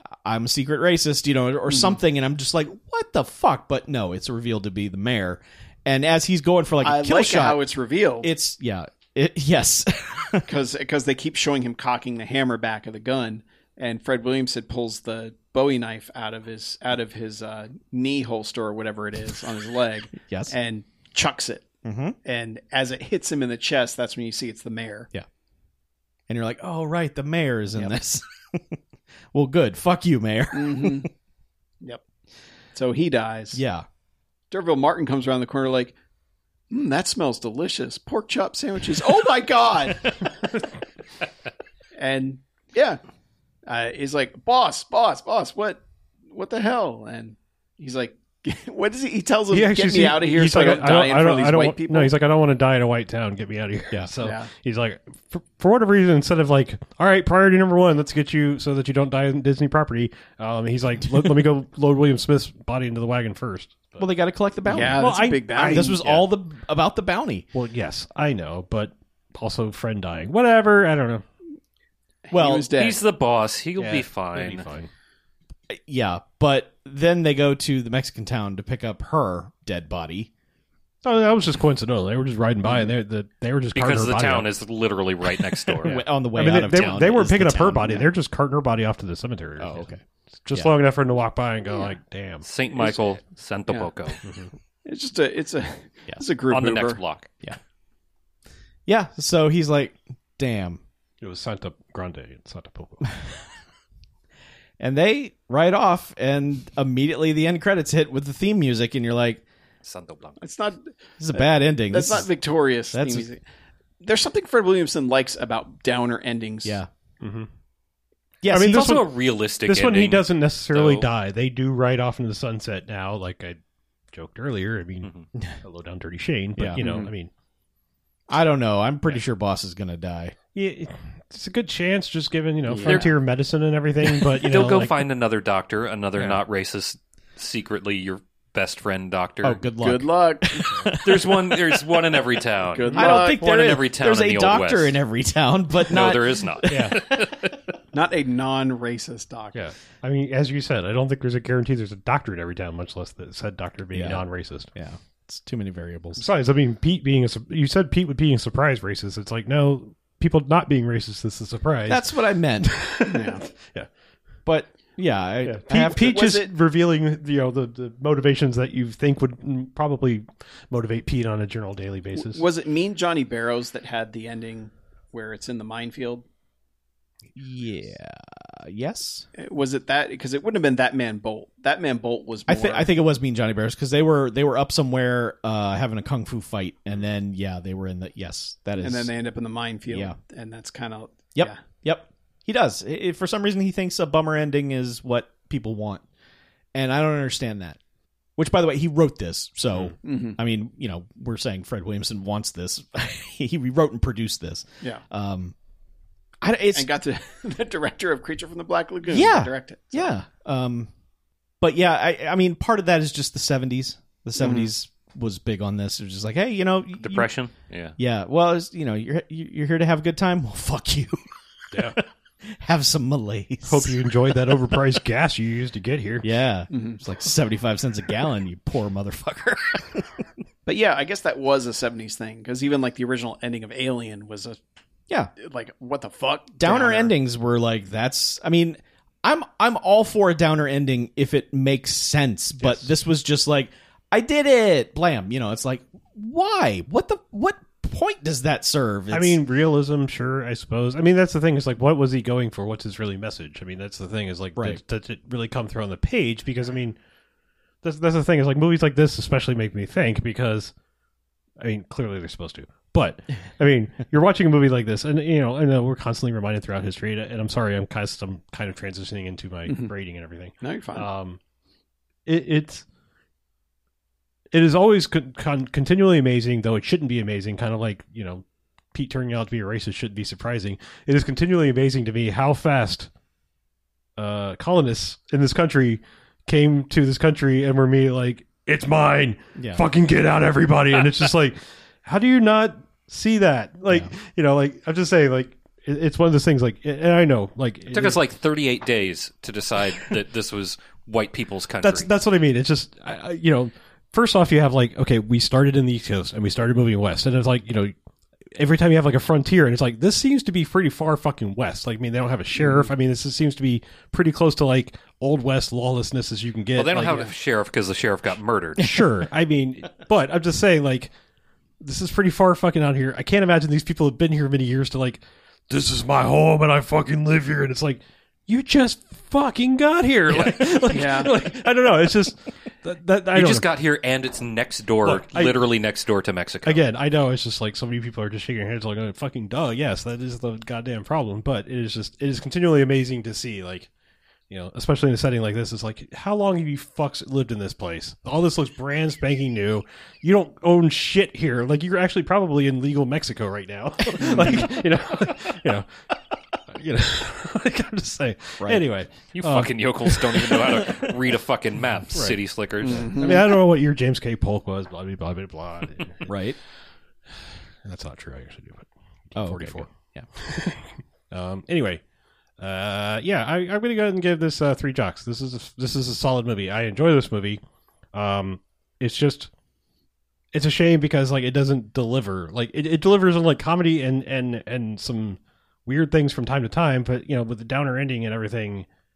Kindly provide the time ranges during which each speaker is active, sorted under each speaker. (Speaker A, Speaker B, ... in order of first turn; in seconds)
Speaker A: 0.2-7.6, 8.2-10.5, 20.3-20.5, 21.8-22.2, 26.3-28.8, 29.3-31.1, 33.5-33.9, 64.0-67.5, 72.3-72.7, 75.7-80.3, 85.8-88.1, 89.6-90.0, 98.9-100.8, 104.8-109.4, 111.2-112.3, 112.9-113.3, 116.6-116.9, 118.4-119.0, 126.6-126.8, 128.3-130.4, 132.7-133.1, 139.4-142.0, 142.9-147.5, 153.9-154.2, 154.8-156.2, 161.9-162.8, 164.5-166.3, 177.3-179.3, 182.5-189.1, 189.9-190.2, 191.4-196.0, 196.7-197.8, 198.4-205.5, 206.4-206.9, 209.1-210.9, 211.6-217.3, 218.0-221.2, 222.5-224.7, 226.2-230.3, 236.6-249.4, 289.6-289.8, 312.6-312.9, 354.2-354.6, 358.6-358.9, 366.2-366.6, 369.4-370.3
Speaker B: 1.7-2.0, 6.8-8.3, 10.4-21.7, 22.2-25.1, 30.5-31.1, 32.7-33.6, 34.5-36.0, 36.7-40.2, 42.0-43.0, 43.7-52.1, 54.2-54.5, 64.7-65.9, 72.3-73.0, 92.8-93.2, 94.8-97.0, 110.4-113.4, 114.0-116.8, 126.8-127.1, 139.8-140.7, 142.7-143.4, 147.9-149.6, 163.1-163.4, 165.9-166.5, 172.2-176.2, 179.3-182.9, 188.8-191.6, 200.0-200.4, 206.7-210.2, 214.4-214.7, 226.7-227.0, 230.7-234.6, 235.4-237.1, 269.7-269.9, 270.6-271.1, 330.9-331.3, 354.2-354.6, 362.9-363.5
Speaker C: 49.5-64.1, 64.7-66.3, 67.5-71.2, 73.8-74.9, 81.0-84.5, 86.3-89.9, 90.5-92.5, 101.2-103.1, 117.2-117.5, 118.5-123.6, 124.1-127.3, 130.5-135.0, 146.7-147.0, 149.6-154.7, 156.2-162.1, 162.6-163.9, 165.4-172.4, 221.7-222.0, 223.7-226.3, 242.6-242.9, 249.1-257.0, 257.8-260.7, 261.6-271.4, 272.3-272.9, 274.5-283.1, 284.2-298.2, 301.8-307.9, 308.6-317.3, 318.8-321.1, 321.8-333.7, 335.1-335.6, 336.6-343.9, 344.5-355.9, 356.7-361.1, 362.1-362.4, 362.9-366.3, 367.8-372.0, 372.6-377.6, 378.1-379.5, 380.5-388.9
Speaker D: 72.8-74.7, 83.7-86.0, 92.4-94.2, 96.5-97.3, 109.8-110.5, 118.6-121.1, 134.3-139.6, 141.0-144.9, 145.9-147.5, 217.0-218.0, 297.9-302.1, 316.8-318.9, 330.3-330.6, 333.3-336.8, 359.3-363.2